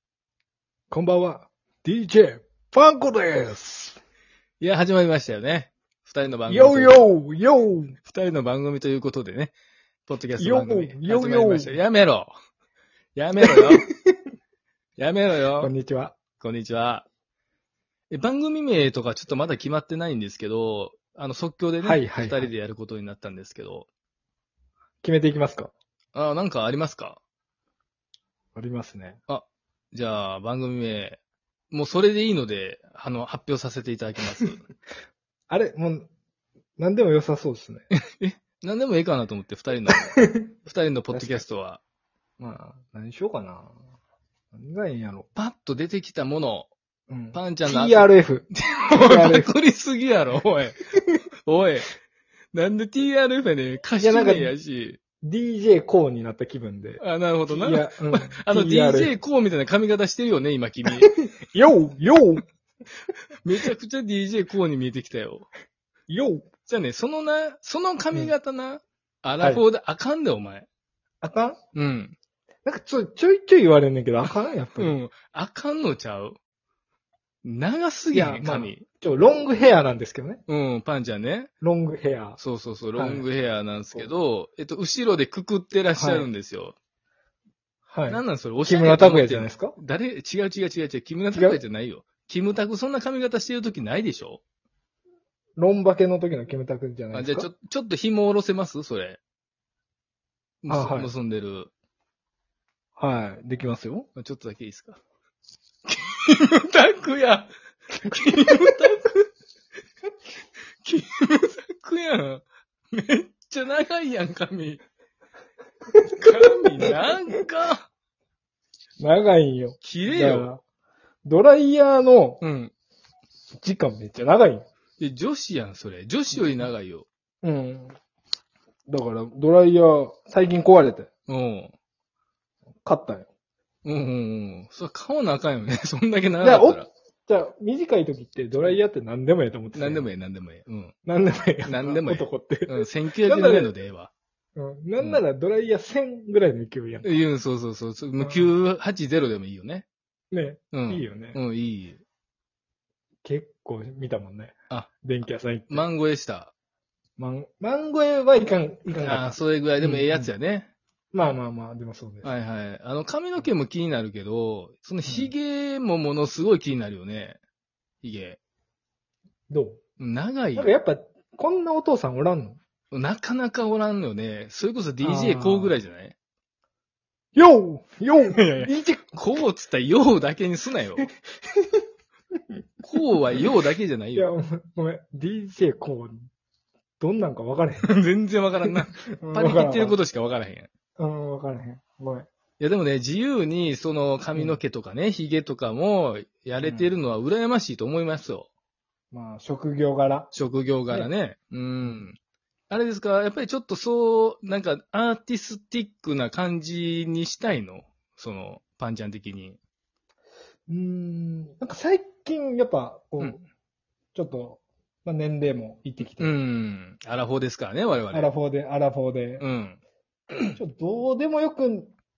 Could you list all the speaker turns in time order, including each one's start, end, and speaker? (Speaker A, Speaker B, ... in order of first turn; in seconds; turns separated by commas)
Speaker A: 0.9-4.0, Speaker B: 4.6-7.1, Speaker A: 6.5-8.0, Speaker B: 8.1-9.5, Speaker B: 10.1-12.3, Speaker A: 10.4-11.8, Speaker B: 13.2-13.8, Speaker A: 13.4-14.1, Speaker B: 15.0-15.7, Speaker A: 15.6-16.2, Speaker B: 16.4-17.1, Speaker B: 18.1-23.9, Speaker A: 21.8-22.5, Speaker A: 25.0-25.7, Speaker B: 26.1-27.2, Speaker A: 28.6-29.2, Speaker B: 29.3-31.2, Speaker B: 31.7-34.6, Speaker A: 35.5-36.1, Speaker A: 36.8-37.9, Speaker B: 37.9-41.8, Speaker A: 40.2-40.5, Speaker A: 41.1-41.4, Speaker A: 42.4-43.8, Speaker A: 44.5-45.3, Speaker B: 45.4-46.7, Speaker A: 47.1-48.5, Speaker B: 47.3-50.8, Speaker A: 49.0-49.5, Speaker B: 51.5-51.9, Speaker B: 52.5-55.0, Speaker A: 54.0-54.5, Speaker A: 55.2-59.1, Speaker B: 57.0-61.1, Speaker A: 61.0-62.4, Speaker B: 63.4-65.5, Speaker A: 66.1-66.5, Speaker B: 66.7-70.7, Speaker A: 71.2-71.6, Speaker B: 71.8-72.2, Speaker A: 72.7-75.0, Speaker B: 74.8-76.4, Speaker B: 77.4-78.8, Speaker A: 78.1-80.4, Speaker B: 80.5-81.5, Speaker A: 81.6-82.4, Speaker B: 82.4-86.8, Speaker A: 83.0-83.3, Speaker A: 86.0-86.3, Speaker A: 87.9-89.7, Speaker B: 88.1-94.4, Speaker A: 91.3-91.6, Speaker A: 95.6-97.5, Speaker B: 97.1-99.2, Speaker B: 100.6-101.7, Speaker A: 100.7-101.1, Speaker A: 103.0-104.1, Speaker B: 104.2-105.0, Speaker B: 105.9-109.1, Speaker A: 108.1-108.8, Speaker B: 110.8-114.8, Speaker A: 115.9-117.4, Speaker B: 116.2-117.9, Speaker A: 119.0-120.6, Speaker B: 119.8-120.5, Speaker A: 121.2-122.4, Speaker B: 122.4-122.7, Speaker A: 123.6-124.7, Speaker B: 125.0-127.1, Speaker A: 126.4-126.6, Speaker A: 127.4-128.0, Speaker A: 128.9-131.1, Speaker B: 131.3-131.7, Speaker A: 132.8-133.3, Speaker B: 133.8-136.9, Speaker A: 136.4-140.1, Speaker B: 139.7-140.9, Speaker A: 141.1-143.7, Speaker B: 141.7-144.1, Speaker A: 144.6-147.1, Speaker B: 147.0-149.9, Speaker A: 148.2-148.5, Speaker A: 150.3-151.4, Speaker B: 150.7-152.0, Speaker A: 153.2-155.8, Speaker B: 155.7-156.5, Speaker A: 157.2-160.3, Speaker B: 159.0-160.7, Speaker A: 161.1-162.3, Speaker B: 162.2-167.4, Speaker A: 165.1-165.3, Speaker B: 168.0-168.4, Speaker A: 169.5-169.8, Speaker B: 170.0-170.7, Speaker A: 170.6-172.6, Speaker B: 172.9-176.2, Speaker A: 175.0-175.8, Speaker A: 177.3-179.2, Speaker B: 178.3-181.1, Speaker A: 181.5-181.8, Speaker B: 182.8-184.3, Speaker A: 184.2-186.2, Speaker A: 187.0-187.9, Speaker B: 187.8-190.7, Speaker A: 188.7-190.0, Speaker A: 191.0-192.3, Speaker B: 192.6-198.5, Speaker A: 196.6-197.0, Speaker A: 199.1-200.3, Speaker B: 200.3-202.2, Speaker B: 202.7-209.6, Speaker A: 210.7-213.4, Speaker A: 214.2-216.3, Speaker B: 216.2-218.3, Speaker A: 218.1-219.4, Speaker B: 219.4-219.8, Speaker B: 220.3-220.6, Speaker A: 220.6-221.9